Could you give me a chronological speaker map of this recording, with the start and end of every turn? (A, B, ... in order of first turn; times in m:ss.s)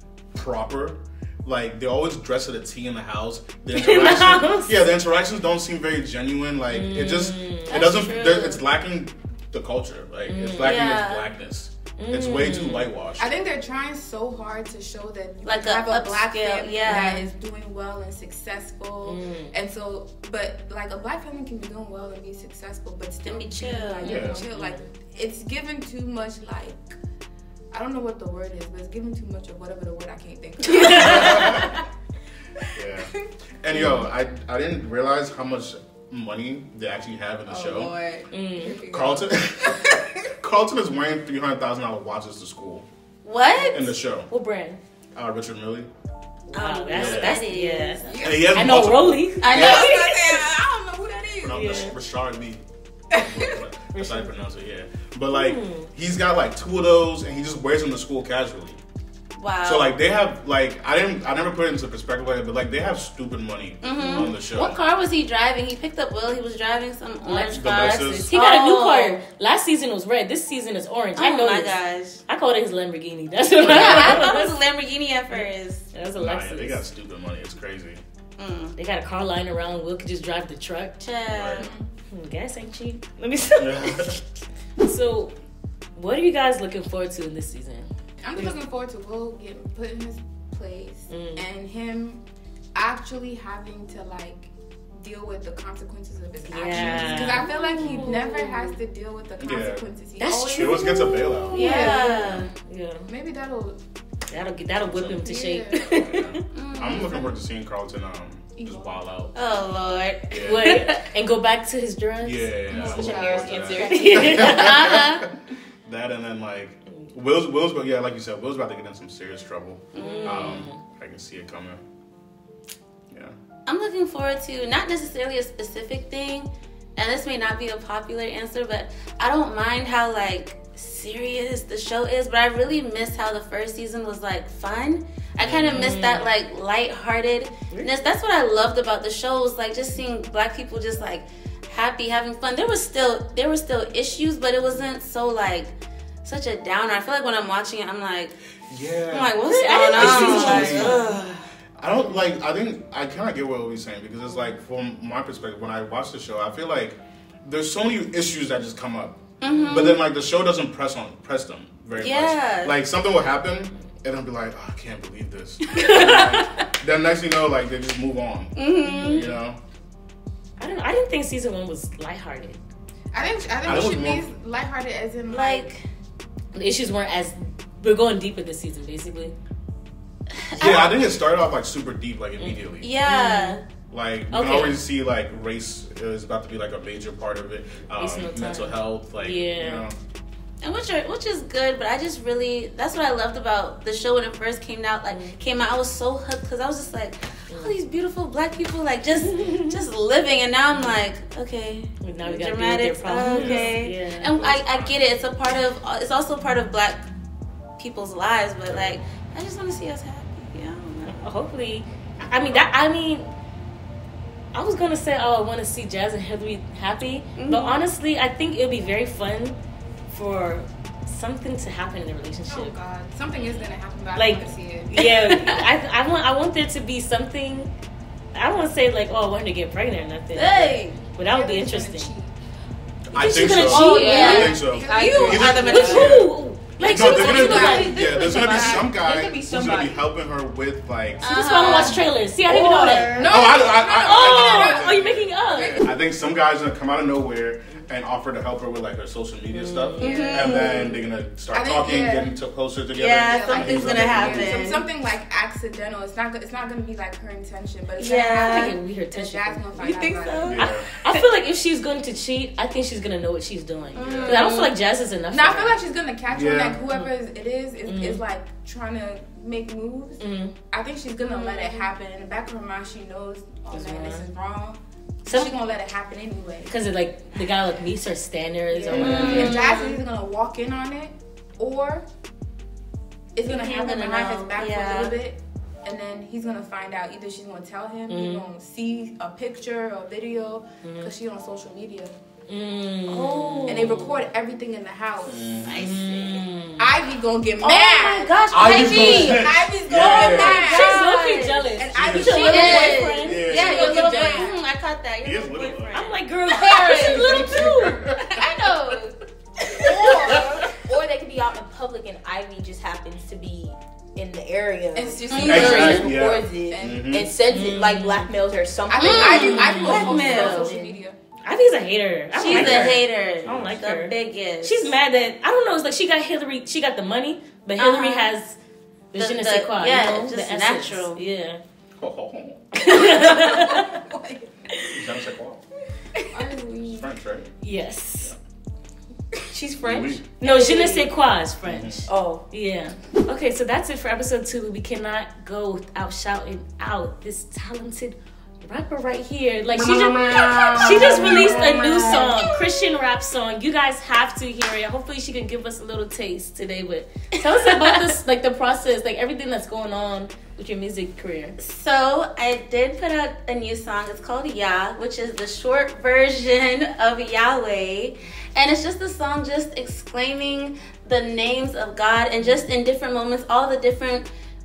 0:00.3-0:13.3 A
0:03.7-0:04.9 B
0:06.7-0:07.8 B
0:07.7-0:08.6 C
0:10.3-0:10.9 B
0:10.6-0:11.3 C
0:12.0-0:12.9 B
0:13.2-0:27.0 D
0:15.4-0:17.2 C
0:16.8-0:17.3 B
0:19.0-0:19.6 B
0:23.2-0:24.1 C
0:24.0-0:24.9 B
0:24.0-0:24.4 A
0:27.7-0:31.8 D
0:30.6-0:31.7 B
0:30.8-0:31.8 A
0:32.7-0:33.1 A
0:33.6-0:38.0 A
0:33.7-0:34.1 B
0:37.5-0:40.3 D
0:38.3-0:38.8 B
0:38.9-0:39.8 A
0:40.4-0:42.8 A
0:43.2-0:43.9 C
0:43.7-0:44.3 A
0:44.3-0:44.8 B
0:45.1-0:45.9 A
0:46.5-0:50.1 B
0:46.5-0:48.1 C
0:46.9-0:47.4 A
0:48.0-0:48.7 D
0:48.2-0:49.9 A
0:49.4-0:50.4 C
0:49.5-0:51.7 D
0:51.4-0:58.8 A
0:51.5-0:52.0 B
0:53.1-0:53.6 D
0:53.9-0:54.3 B
0:55.3-0:55.9 B
0:59.4-0:59.9 C
0:59.6-1:04.8 A
1:03.8-1:09.2 C
1:04.0-1:04.3 B
1:07.2-1:14.6 B
1:07.5-1:08.3 A
1:11.2-1:12.2 C
1:13.6-1:15.8 C
1:15.3-1:16.8 B
1:16.2-1:18.0 A
1:18.4-1:18.8 C
1:18.8-1:21.0 B
1:21.0-1:21.7 C
1:21.3-1:21.7 A
1:21.6-1:21.9 D
1:22.1-1:24.2 B
1:23.6-1:24.1 A
1:24.8-1:25.3 B
1:25.9-1:28.6 B
1:28.2-1:32.2 D
1:31.1-1:31.4 B
1:32.7-1:42.3 D
1:36.4-1:38.8 B
1:36.7-1:37.5 A
1:39.4-1:39.8 A
1:40.2-1:43.1 B
1:40.5-1:41.7 A
1:41.5-1:42.5 C
1:42.2-1:42.5 A
1:43.1-1:43.8 D
1:44.3-1:46.4 B
1:45.0-1:46.0 D
1:46.0-1:49.4 A
1:46.5-1:47.2 C
1:48.6-1:49.0 D
1:49.3-1:50.7 C
1:50.3-1:50.9 A
1:50.4-1:53.1 B
1:52.2-1:55.2 A
1:52.7-1:54.2 D
1:52.7-1:54.5 E
1:53.9-1:55.0 B
1:54.4-1:55.3 C
1:55.8-2:01.8 A
1:59.9-2:00.5 C
2:00.0-2:00.8 B
2:03.1-2:03.3 A
2:03.6-2:25.7 C
2:15.4-2:16.0 A
2:15.7-2:16.3 B
2:26.2-2:28.4 C
2:28.7-2:31.0 A
2:29.1-2:31.4 C
2:29.4-2:31.2 B
2:31.8-2:49.6 A
2:39.4-2:40.0 C
2:39.5-2:40.0 B
2:42.0-2:42.7 C
2:45.7-2:46.6 B
2:48.6-2:49.3 C
2:48.8-2:49.4 B
2:50.6-2:52.6 B
2:53.1-2:55.7 D
2:53.6-2:54.3 A
2:55.3-2:55.8 C
2:56.5-2:59.3 B
3:00.4-3:00.9 C
3:00.5-3:02.9 A
3:02.4-3:03.6 B
3:02.8-3:03.6 C
3:03.9-3:10.0 A
3:04.3-3:04.8 B
3:08.0-3:09.8 B
3:10.6-3:27.1 C
3:15.1-3:15.4 B
3:17.5-3:17.7 B
3:19.2-3:19.8 B
3:20.7-3:21.0 B
3:22.0-3:24.4 B
3:23.3-3:25.0 A
3:27.8-3:31.3 C
3:31.0-3:33.3 B
3:34.5-3:39.6 B
3:37.4-3:37.8 C
3:40.1-3:42.7 B
3:42.5-3:45.6 D
3:44.1-3:47.7 B
3:48.3-3:52.1 B
3:50.3-3:51.0 C
3:51.2-3:52.3 D
3:53.1-4:02.0 A
3:53.1-3:54.6 B
3:53.6-3:56.2 C
3:53.8-3:56.2 D
3:54.0-3:56.0 E
3:55.4-3:58.7 B
3:56.8-3:58.8 D
3:57.0-4:00.0 E
4:01.2-4:02.0 C
4:01.2-4:03.2 B
4:02.4-4:03.7 E
4:03.1-4:06.0 D
4:03.2-4:14.6 A
4:04.0-4:05.8 B
4:09.5-4:10.4 B
4:10.0-4:10.9 C
4:10.0-4:10.9 D
4:11.5-4:12.3 D
4:12.9-4:14.9 C
4:13.2-4:20.6 D
4:18.0-4:18.7 C
4:18.4-4:20.0 B
4:19.8-4:21.2 C
4:20.4-4:20.9 A
4:21.0-4:25.8 B
4:23.9-4:24.7 C
4:24.0-4:24.4 A
4:25.3-4:36.7 D
4:26.3-4:26.8 A
4:27.8-4:28.2 B
4:30.2-4:30.5 B
4:31.2-4:31.9 C
4:33.7-4:34.3 B
4:35.2-4:35.6 B
4:36.7-4:39.7 B
4:38.7-4:42.0 D
4:38.9-4:39.6 A
4:38.9-4:40.0 C
4:43.3-4:52.1 D
4:43.4-4:45.2 C
4:48.1-4:48.5 B
4:50.8-4:51.1 B
4:52.5-4:54.3 B
4:53.1-4:54.0 C
4:53.6-4:55.6 D
4:55.3-4:55.8 A
4:55.6-4:56.4 C
4:55.8-4:56.9 B
4:56.8-5:04.6 D
4:57.6-5:01.6 C
4:58.5-5:00.7 A
4:58.7-4:59.1 B
5:00.4-5:03.7 B
5:01.9-5:04.4 A
5:02.3-5:07.0 C
5:05.2-5:06.0 A
5:05.9-5:08.2 B
5:06.5-5:07.7 D
5:07.0-5:08.4 A
5:08.3-5:09.1 D
5:08.4-5:08.7 C
5:09.8-5:10.6 D
5:09.8-5:21.0 E
5:09.8-5:10.4 A
5:14.9-5:17.1 D
5:15.3-5:16.0 C
5:15.4-5:17.3 A
5:15.6-5:16.0 B
5:17.5-5:18.3 B
5:18.9-5:21.2 D
5:18.9-5:20.8 C
5:19.2-5:20.2 B
5:21.4-5:28.6 B
5:22.3-5:24.9 C
5:22.5-5:23.8 A
5:27.8-5:28.3 C
5:29.1-5:31.6 B
5:29.1-5:31.2 C
5:32.0-5:32.6 A
5:32.7-5:34.0 B
5:32.9-5:34.4 D
5:34.9-5:35.6 A
5:36.3-5:37.1 D
5:36.9-5:37.5 A
5:37.6-5:38.3 B
5:39.5-5:41.1 E
5:39.8-5:40.2 A
5:40.4-6:01.6 B
5:41.6-5:42.0 A
5:42.1-5:42.4 E
5:49.7-5:52.5 E
5:57.4-5:58.1 C
6:01.6-6:14.3 C